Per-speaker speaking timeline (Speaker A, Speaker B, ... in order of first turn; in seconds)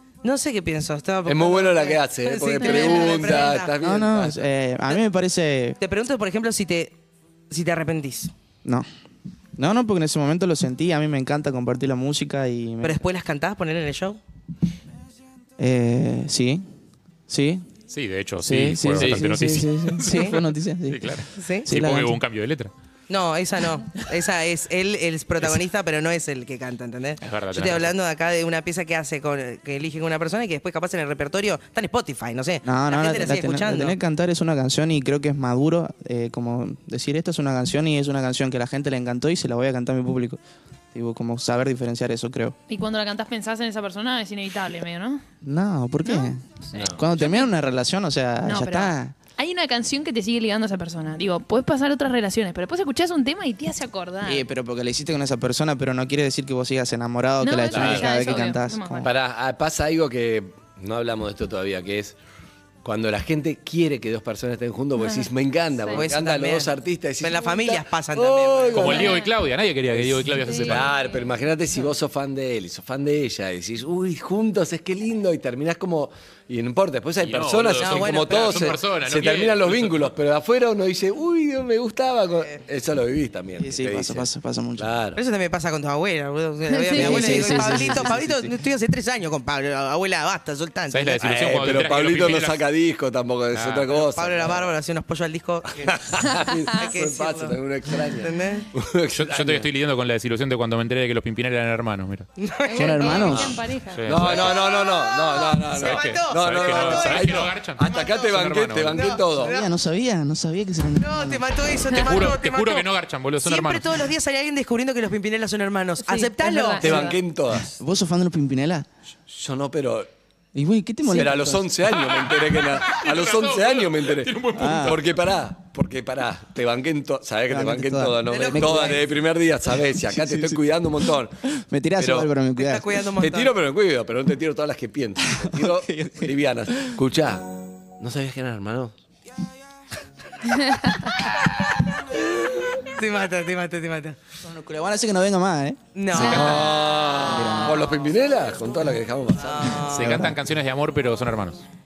Speaker A: 0.2-3.7, 5.8-7.0, 7.5-8.3, 12.8-14.2, 20.0-20.4, 21.3-21.7, 23.1-34.0, 65.9-69.1, 77.8-78.8, 85.2-91.2, 93.9-96.0, 96.7-98.7, 102.4-103.4, 104.2-108.3, 108.9-109.7, 111.0-112.9, 113.4-117.1, 128.2-129.0, 132.6-133.5, 142.7-144.2, 145.9-148.0, 149.4-150.2
Speaker B: 1.3-4.5, 19.0-19.3, 46.7-47.1, 57.7-58.4, 59.0-62.2, 62.8-69.2, 69.9-85.2, 91.2-94.7, 95.8-99.7, 104.1-109.5, 116.8-117.8, 119.3-120.1, 121.0-131.4, 132.0-132.3, 133.2-137.5, 138.0-138.9, 146.1-149.8
Speaker C: 2.6-3.3, 42.7-45.2, 46.0-47.5, 48.4-54.5, 57.4-59.1, 65.0-65.3, 69.0-69.3, 70.4-71.2, 86.8-87.7, 102.6-104.1, 116.0-117.2, 140.6-140.9
Speaker D: 3.8-5.8, 9.6-13.0, 15.6-16.7, 17.3-17.7, 18.4-22.2, 32.6-40.4, 40.9-42.6, 45.4-46.4, 46.9-49.2, 54.2-59.1, 83.6-84.9, 86.9-88.5, 102.8-103.6, 109.4-111.5, 117.8-118.9, 120.5-121.7, 124.5-125.0, 127.5-129.0, 130.1-130.6, 131.6-132.9, 135.3-136.9, 144.4-146.3, 147.2-147.8, 149.9-150.4
Speaker E: 17.9-20.4, 20.9-22.7, 27.2-27.9, 68.7-70.9, 77.2-80.1, 90.9-92.6, 93.5-93.9, 99.1-102.3, 103.9-104.6, 105.8-109.2, 111.9-114.0, 121.9-125.1, 149.9-151.6